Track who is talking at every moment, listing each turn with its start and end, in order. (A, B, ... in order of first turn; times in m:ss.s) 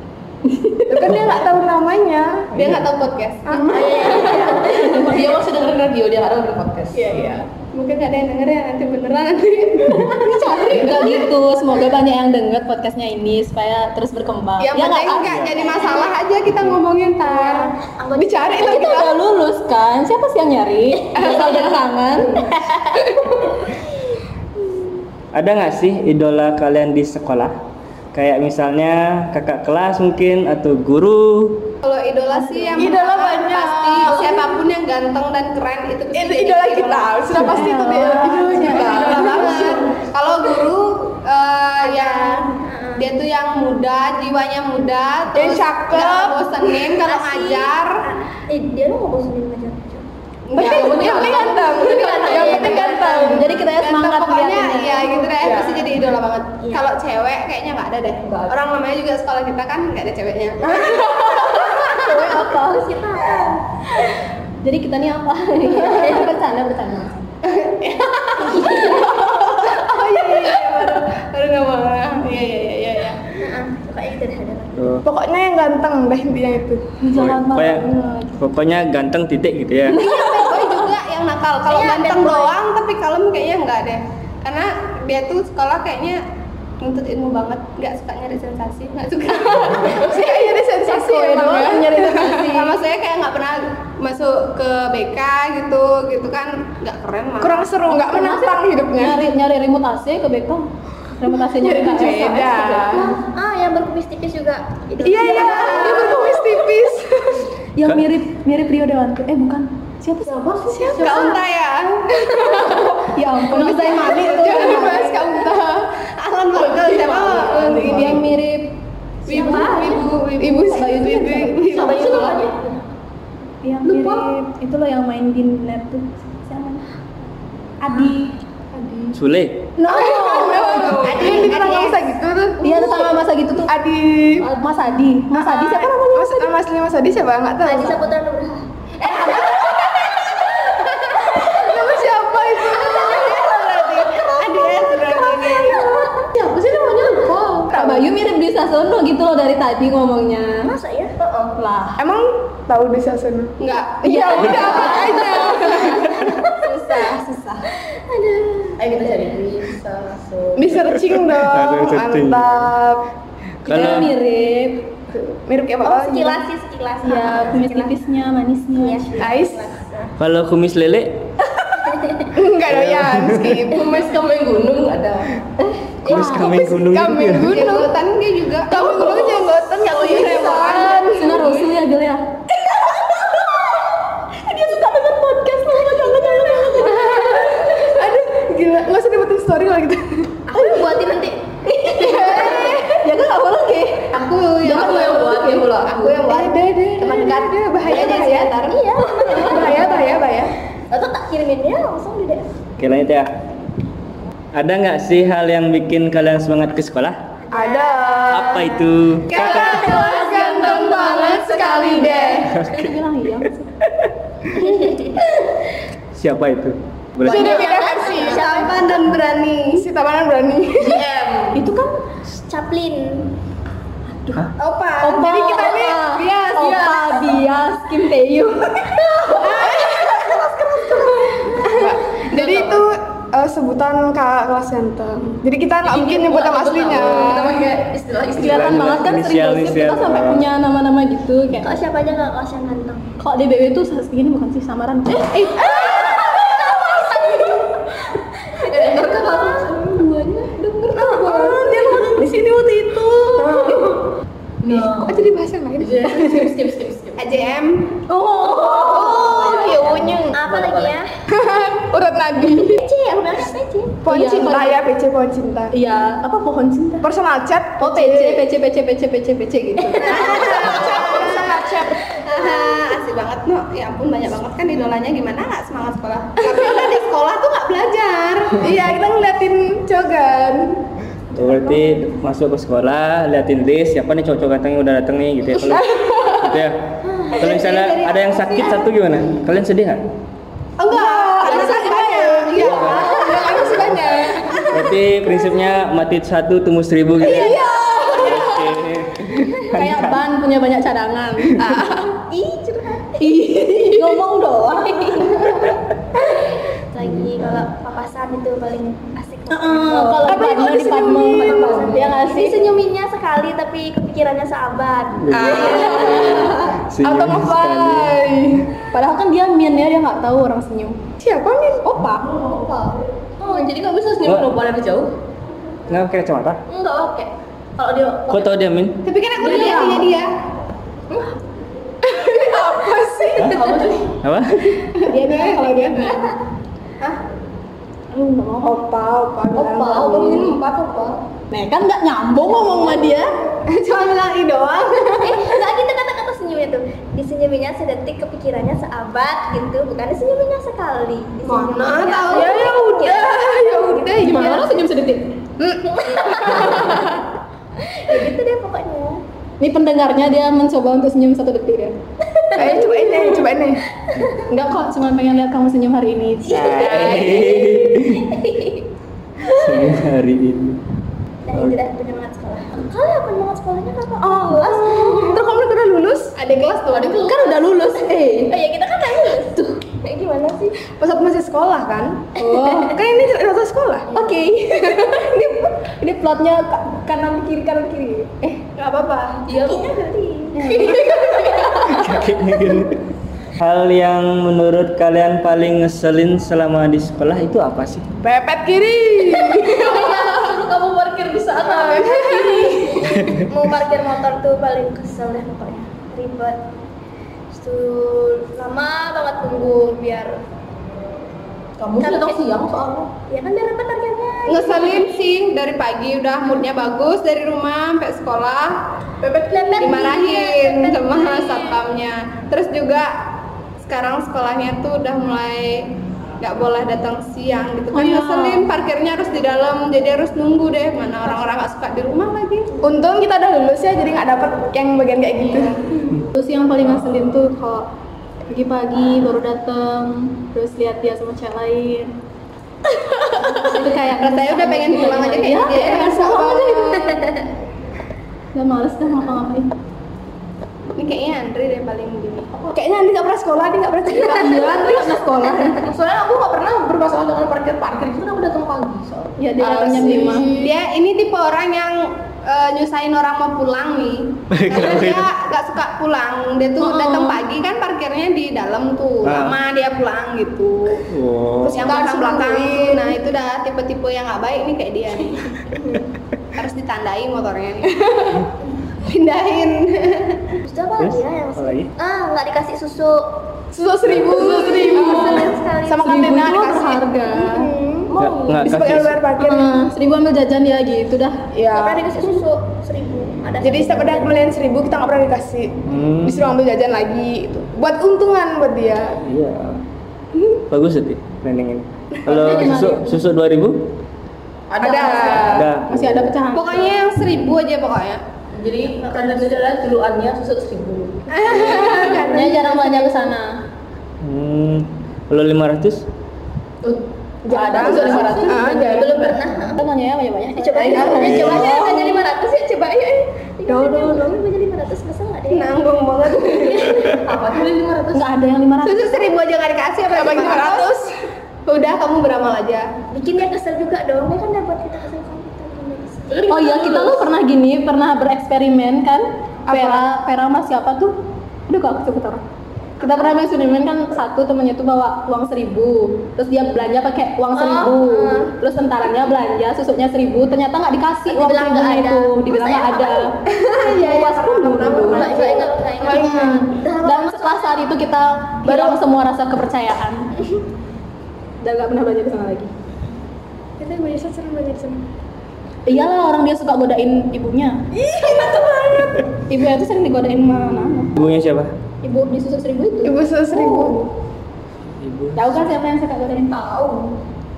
0:00.5-0:01.1 A
0:00.9-0:02.5 B
0:02.5-0:04.6 C
0:02.6-0:02.8 D
0:03.5-0:04.7 B
0:03.6-0:05.2 E
0:04.6-0:07.1 F
0:07.0-0:11.2 C
0:10.0-0:15.4 A
0:10.2-0:10.8 B
0:14.6-0:17.7 C
0:15.2-0:15.7 D
0:15.4-0:16.2 E
0:16.5-0:16.8 D
0:17.2-0:19.1 E
0:18.2-0:19.2 B
0:18.6-0:22.5 A
0:21.1-0:21.7 E
0:22.4-0:23.8 E
0:25.3-0:27.6 D
0:28.1-0:31.7 D
0:31.8-0:37.2 C
0:32.3-0:32.9 A
0:32.8-0:34.5 B
0:36.1-0:39.9 B
0:37.3-0:39.7 A
0:38.7-0:48.0 C
0:41.8-0:43.1 E
0:45.3-0:46.4 B
0:46.9-0:50.0 E
0:50.5-0:51.5 C
0:50.6-0:53.5 B
0:50.6-0:51.6 F
0:51.1-0:51.5 A
0:51.6-0:53.5 E
0:52.4-1:01.6 C
0:53.2-0:55.2 A
0:55.4-0:55.8 B
0:56.6-0:56.9 E
0:58.2-0:58.6 F
1:00.7-1:02.9 A
1:02.4-1:04.0 E
1:04.6-1:07.2 A
1:05.8-1:06.3 E
1:07.5-1:13.3 C
1:08.4-1:09.2 E
1:13.4-1:15.0 E
1:14.8-1:15.1 D
1:15.0-1:16.9 B
1:17.0-1:18.4 A
1:17.1-1:20.0 D
1:19.9-1:20.5 A
1:19.9-1:26.2 C
1:21.7-1:22.6 E
1:26.8-1:30.3 C
1:29.9-1:32.4 B
1:30.8-1:32.8 A
1:32.4-1:37.7 C
1:37.4-1:39.3 B
1:37.9-1:43.2 A
1:41.6-1:43.1 B
1:43.0-1:46.6 E
1:45.0-1:47.5 B
1:45.4-1:45.9 C
1:47.8-1:50.4 A
1:50.3-1:51.0 F
1:50.7-1:51.4 B
1:50.9-1:52.8 C
1:51.0-1:51.3 A
1:51.1-1:51.3 E
1:52.2-1:53.0 B
1:53.1-1:55.4 A
1:53.6-1:54.9 C
1:53.9-1:55.8 B
1:56.2-1:58.2 C
1:56.5-1:58.2 F
1:57.8-1:58.8 A
1:59.3-2:02.0 A
1:59.3-2:02.1 C
1:59.3-2:00.1 E
2:01.7-2:02.6 F
2:01.7-2:02.7 E
2:03.6-2:06.8 A
2:03.9-2:04.2 F
2:07.8-2:08.4 A
2:08.8-2:09.1 B
2:09.1-2:09.7 D
2:09.8-2:11.4 A
2:09.8-2:13.2 B
2:10.6-2:11.3 F
2:10.9-2:12.0 C
2:12.6-2:13.7 A
2:13.7-2:14.5 B
2:14.4-2:16.5 A
2:15.3-2:18.0 B
2:17.6-2:18.7 E
2:19.0-2:19.4 F
2:19.0-2:25.9 B
2:21.3-2:21.9 E
2:22.7-2:26.3 E
2:23.0-2:25.7 C
2:26.3-2:27.7 F
2:27.7-2:30.7 A
2:27.7-2:28.1 B
2:30.6-2:31.1 E
2:31.2-2:31.6 F
2:31.6-2:32.0 A
2:32.0-2:37.1 B
2:33.6-2:35.6 C
2:34.0-2:35.9 A
2:35.2-2:36.8 E
2:36.7-2:37.6 A
2:37.9-2:39.4 E
2:38.8-2:40.8 F
2:40.6-2:43.0 B
2:40.9-2:42.7 D
2:43.6-2:44.9 A
2:43.7-2:44.1 D
2:45.1-2:46.4 B
2:45.8-2:48.0 E
2:47.0-2:49.3 A
2:48.8-2:50.1 E
2:49.2-2:49.7 B
2:50.2-2:51.3 D
2:51.8-2:52.3 E
2:52.3-2:54.1 B
2:52.7-2:53.7 D
2:53.7-2:55.3 F
2:55.6-2:56.6 A
2:56.0-2:57.6 D
2:56.0-2:57.9 B
2:57.4-3:00.8 C
2:58.7-3:01.4 B
2:58.7-3:01.7 F
3:01.0-3:02.4 A
3:02.7-3:03.5 F
3:04.6-3:07.3 A
3:05.9-3:07.3 E
3:06.9-3:10.3 B
3:10.5-3:12.8 E
3:12.0-3:13.0 B
3:12.4-3:15.7 A
3:14.1-3:18.8 C
3:14.6-3:16.3 F
3:16.2-3:18.5 B
3:18.7-3:20.2 E
3:19.4-3:20.5 B
3:20.9-3:22.5 E
3:22.8-3:23.4 D
3:24.5-3:27.2 D
3:27.4-3:28.6 E
3:27.5-3:28.8 B
3:28.3-3:29.9 D
3:29.3-3:32.5 B
3:29.4-3:31.3 E
3:29.4-3:32.4 C
3:31.6-3:33.7 A
3:31.9-3:32.5 E
3:32.6-3:32.9 D
3:34.6-3:35.3 E
3:36.1-3:37.7 D
3:37.2-3:38.6 B
3:37.2-3:39.1 E
3:38.1-3:39.9 C
3:39.8-3:41.1 B
3:40.8-3:41.6 F
3:41.5-3:42.0 A
3:42.4-3:43.3 E
3:44.2-3:49.2 A
3:44.6-3:46.4 B
3:46.2-3:46.7 C
3:49.4-3:50.5 E
3:49.4-3:51.1 B
3:51.3-3:51.6 E
3:51.6-3:57.7 B
3:52.2-3:52.9 F
3:55.8-3:59.0 F
3:57.0-3:57.3 D
3:58.3-4:01.8 A
3:58.4-4:00.5 D
4:01.6-4:03.1 E
4:03.2-4:05.5 A
4:05.5-4:06.8 B
4:05.7-4:07.6 E
4:06.3-4:06.7 F
4:08.5-4:09.7 E
4:08.7-4:14.1 F
4:10.9-4:12.1 B
4:14.6-4:15.3 F
4:14.7-4:16.5 B
4:15.8-4:17.4 F
4:17.2-4:18.0 C
4:18.1-4:21.0 F
4:18.4-4:18.8 A
4:18.6-4:21.1 E
4:19.1-4:20.3 B
4:21.3-4:22.8 B
4:22.7-4:24.0 E
4:24.0-4:25.7 B
4:24.1-4:24.8 A
4:25.7-4:27.1 A
4:27.0-4:28.5 B
4:27.8-4:30.5 A
4:30.0-4:31.5 E
4:30.0-4:32.1 B
4:30.0-4:38.7 C
4:32.2-4:32.8 E
4:38.6-4:40.8 B
4:41.3-4:46.8 D
4:41.4-4:41.9 B
4:45.7-4:46.4 B
4:47.0-4:48.8 E
4:47.4-4:50.0 D
4:50.8-4:54.9 B
4:50.9-4:53.6 C
4:52.6-4:54.0 D
4:52.8-4:53.8 E
4:54.7-5:00.2 D
4:57.2-4:58.4 E
4:57.2-4:58.8 B
4:59.7-5:01.7 A
5:01.6-5:02.0 B
5:02.1-5:03.4 E
5:03.2-5:05.8 A
5:04.8-5:05.6 E
5:06.1-5:16.3 E
5:09.5-5:12.6 A
5:10.3-5:11.9 B
5:15.2-5:18.2 D
5:15.3-5:18.7 B
5:15.6-5:16.8 A
5:18.9-5:21.0 A
5:21.2-5:21.9 B
5:21.9-5:22.3 A
5:22.3-5:25.1 F
5:24.2-5:24.5 D
5:25.9-5:26.6 D
5:26.7-5:28.5 F
5:28.3-5:29.1 D
5:29.0-5:30.3 C
5:29.4-5:30.1 A
5:29.4-5:29.8 F
5:32.0-5:33.8 B
5:33.4-5:34.2 F
5:34.2-5:34.9 D
5:35.0-5:36.3 A
5:35.6-5:35.9 C
5:36.0-5:36.2 E
5:38.1-5:38.8 A
5:38.6-5:40.5 B
5:39.5-5:41.2 F
5:41.5-5:43.4 A
5:43.8-5:45.3 C
5:44.7-5:45.1 B
5:45.2-5:54.2 E
5:51.4-5:52.7 C
5:52.3-5:54.4 B
5:52.4-5:52.7 A
5:54.2-5:55.3 A
5:55.9-5:57.1 E
5:56.2-5:56.9 B
5:57.8-5:59.2 E
5:59.6-6:02.0 A
6:02.3-6:03.6 E
6:02.5-6:03.8 B
6:04.1-6:04.4 E
6:04.5-6:06.8 A
6:06.5-6:08.3 D
6:06.6-6:08.8 E
6:09.4-6:10.8 D
6:11.5-6:15.4 E
6:11.5-6:11.8 D
6:14.2-6:16.3 B
6:16.4-6:17.4 C
6:17.2-6:18.6 A
6:18.5-6:20.8 E
6:21.0-6:22.3 B
6:22.4-6:23.0 A
6:22.4-6:22.9 E
6:22.9-6:24.1 B
6:24.1-6:28.6 A
6:28.8-6:29.4 C
6:29.5-6:29.9 F
6:29.5-6:31.0 E
6:30.6-6:32.1 A
6:31.0-6:31.5 B
6:31.9-6:33.0 D
6:33.6-6:38.0 D
6:38.2-6:40.3 B
6:39.5-6:43.3 F
6:41.7-6:42.5 E
6:41.7-6:43.0 B
6:43.3-6:46.7 E
6:47.5-6:50.4 E
6:51.8-6:53.1 F
6:52.0-6:52.4 E
6:53.3-6:55.1 E
6:54.5-6:58.8 C
6:59.2-6:59.7 F
6:59.5-7:01.8 E
6:59.8-7:03.3 C
7:03.8-7:05.9 C
7:06.4-7:12.7 C
7:07.9-7:08.7 A
7:12.8-7:16.2 B
7:16.3-7:17.9 A
7:18.5-7:22.1 A
7:23.4-7:27.2 A
7:23.7-7:26.3 C
7:25.9-7:27.2 B
7:27.0-7:27.4 E
7:28.5-7:29.7 A
7:31.0-7:32.5 C
7:32.7-7:35.1 B
7:34.1-7:35.9 A
7:35.8-7:40.3 F
7:39.4-7:40.6 A
7:39.6-7:40.6 B
7:39.7-7:51.0 C
7:44.5-7:45.3 D
7:46.8-7:47.4 A
7:49.2-7:49.6 D
7:51.1-7:52.0 D
7:51.7-7:55.8 C
7:51.8-7:53.0 B
7:56.6-7:58.2 C
7:59.0-8:00.6 C
8:00.6-8:03.3 E
8:01.0-8:01.9 D
8:03.7-8:09.9 B
8:04.2-8:06.2 E
8:04.8-8:05.4 A
8:06.0-8:07.7 A
8:08.1-8:08.8 F
8:08.2-8:09.2 D
8:09.4-8:11.4 A
8:11.5-8:12.2 B
8:11.7-8:14.4 E
8:13.6-8:19.2 B
8:15.9-8:16.5 D
8:19.2-8:19.8 D
8:20.7-8:23.9 D
8:22.3-8:23.2 A
8:24.7-8:25.6 F
8:24.8-8:25.7 B
8:25.4-8:26.3 D
8:25.8-8:27.0 A
8:26.5-8:28.2 C
8:28.5-8:31.5 F
8:29.1-8:29.6 A
8:31.3-8:33.1 B
8:31.5-8:32.4 C
8:31.7-8:33.6 A
8:31.9-8:32.2 D
8:34.2-8:36.1 D
8:36.8-8:39.5 F
8:37.5-8:39.2 B
8:37.6-8:39.1 A
8:38.8-8:39.9 E
8:39.7-8:42.0 A
8:40.6-8:45.8 E
8:41.0-8:41.5 F
8:41.3-8:41.5 D
8:43.7-8:44.2 C
8:45.5-8:47.2 C
8:46.4-8:47.2 E
8:46.7-8:48.2 F
8:48.1-8:49.3 A
8:48.8-8:51.0 C
8:50.1-8:51.1 B
8:51.7-8:52.9 C
8:53.1-8:56.6 E
8:56.3-8:57.3 F
8:56.5-9:01.2 A
8:59.7-9:00.1 B
9:01.7-9:02.4 A
9:03.0-9:03.4 E
9:03.0-9:15.4 A
9:07.5-9:08.5 E
9:11.3-9:13.3 E
9:13.8-9:16.4 C
9:15.0-9:17.9 E
9:16.0-9:16.7 B
9:17.0-9:20.3 A
9:21.6-9:22.7 A
9:23.8-9:25.0 B
9:25.9-9:28.0 A
9:29.3-9:31.1 A
9:31.2-9:31.7 D
9:32.0-9:33.8 A
9:33.0-9:34.1 B
9:35.0-9:35.5 D
9:35.4-9:36.6 A
9:36.5-9:37.2 F